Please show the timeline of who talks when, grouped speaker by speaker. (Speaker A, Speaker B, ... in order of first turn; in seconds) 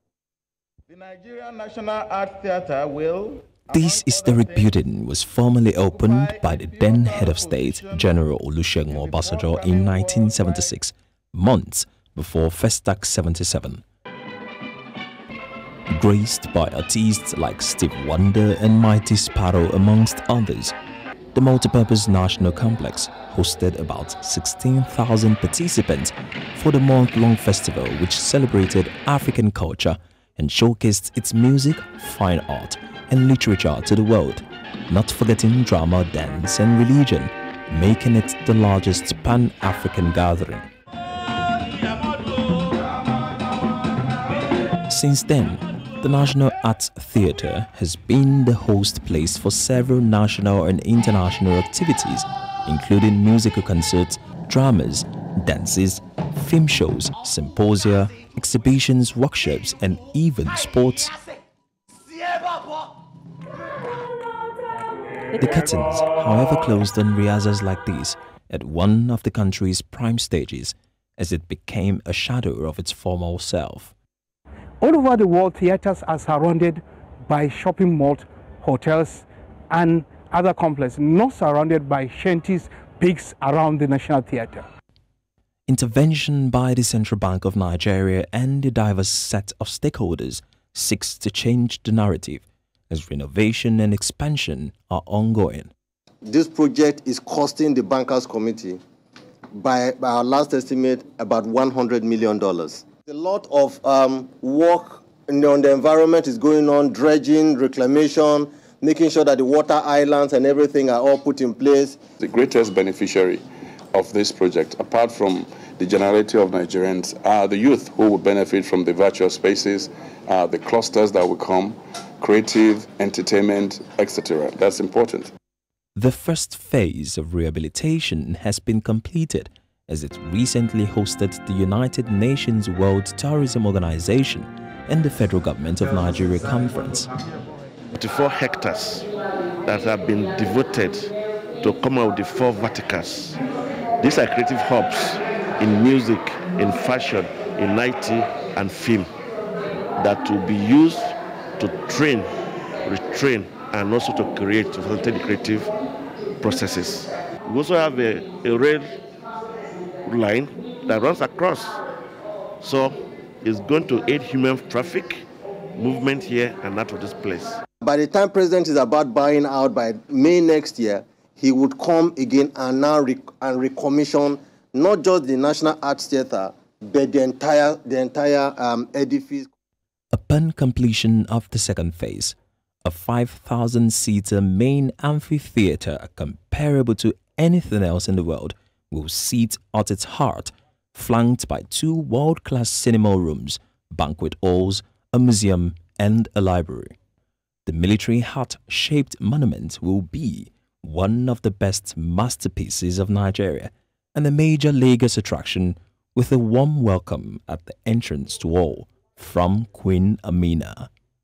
Speaker A: 0.9-4.7, 5.9-8.2, 8.9-10.7
Speaker B: 3.7-13.8, 15.9-20.7, 21.3-40.7, 44.9-61.2, 65.3-73.9, 85.7-95.7, 126.0-137.1, 180.1-196.9, 197.7-210.9
Speaker C: 74.8-84.7
Speaker D: 96.2-98.8, 99.5-112.0, 167.8-179.5
Speaker E: 112.2-113.4, 113.9-125.3
Speaker F: 137.9-139.1, 139.6-143.4, 144.0-149.1, 150.0-152.3, 152.8-155.7, 156.4-159.0, 160.1-161.8, 162.6-165.2, 165.8-167.6